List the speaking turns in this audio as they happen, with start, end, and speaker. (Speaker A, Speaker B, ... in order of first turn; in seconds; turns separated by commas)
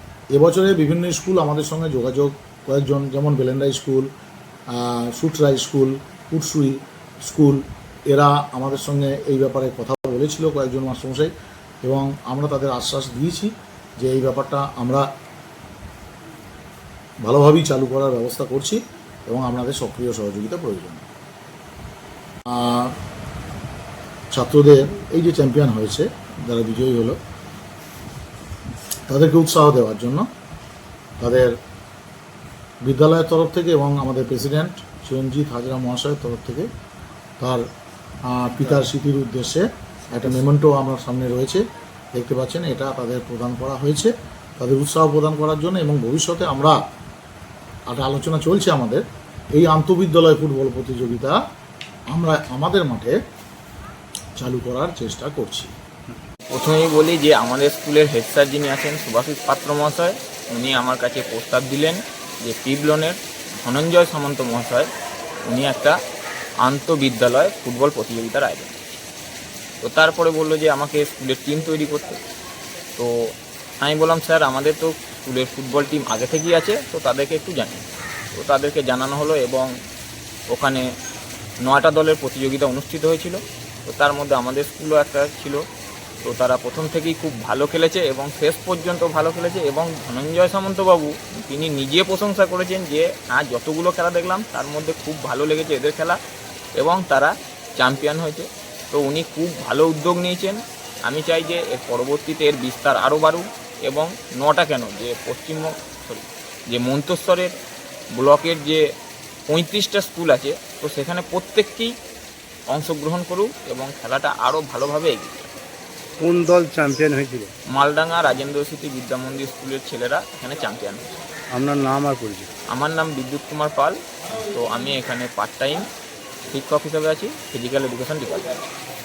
Speaker A: 0.3-4.1, Speaker A: 4.7-11.3, Speaker A: 11.8-15.0, Speaker A: 17.2-21.0, Speaker A: 22.5-22.9, Speaker A: 24.3-27.2, Speaker A: 29.1-30.2, Speaker A: 31.2-31.5, Speaker A: 32.8-36.7, Speaker A: 38.3-41.6, Speaker A: 42.1-46.8, Speaker A: 47.9-49.0, Speaker A: 49.5-51.4, Speaker A: 52.1-53.2, Speaker A: 54.4-55.7, Speaker B: 56.5-64.9, Speaker B: 65.5-66.0, Speaker B: 66.6-68.8, Speaker B: 69.8-72.2, Speaker B: 73.8-77.8, Speaker B: 78.3-79.7, Speaker B: 80.5-80.8, Speaker B: 81.6-85.6, Speaker B: 86.2-96.2, Speaker B: 96.8-107.5, Speaker B: 108.1-108.8, Speaker B: 109.5-111.9, Speaker B: 112.7-115.5, Speaker C: 116.2-117.5, Speaker B: 117.7-121.0, Speaker C: 121.5-122.5, Speaker B: 122.7-124.0, Speaker B: 124.5-125.8, Speaker B: 126.5-128.7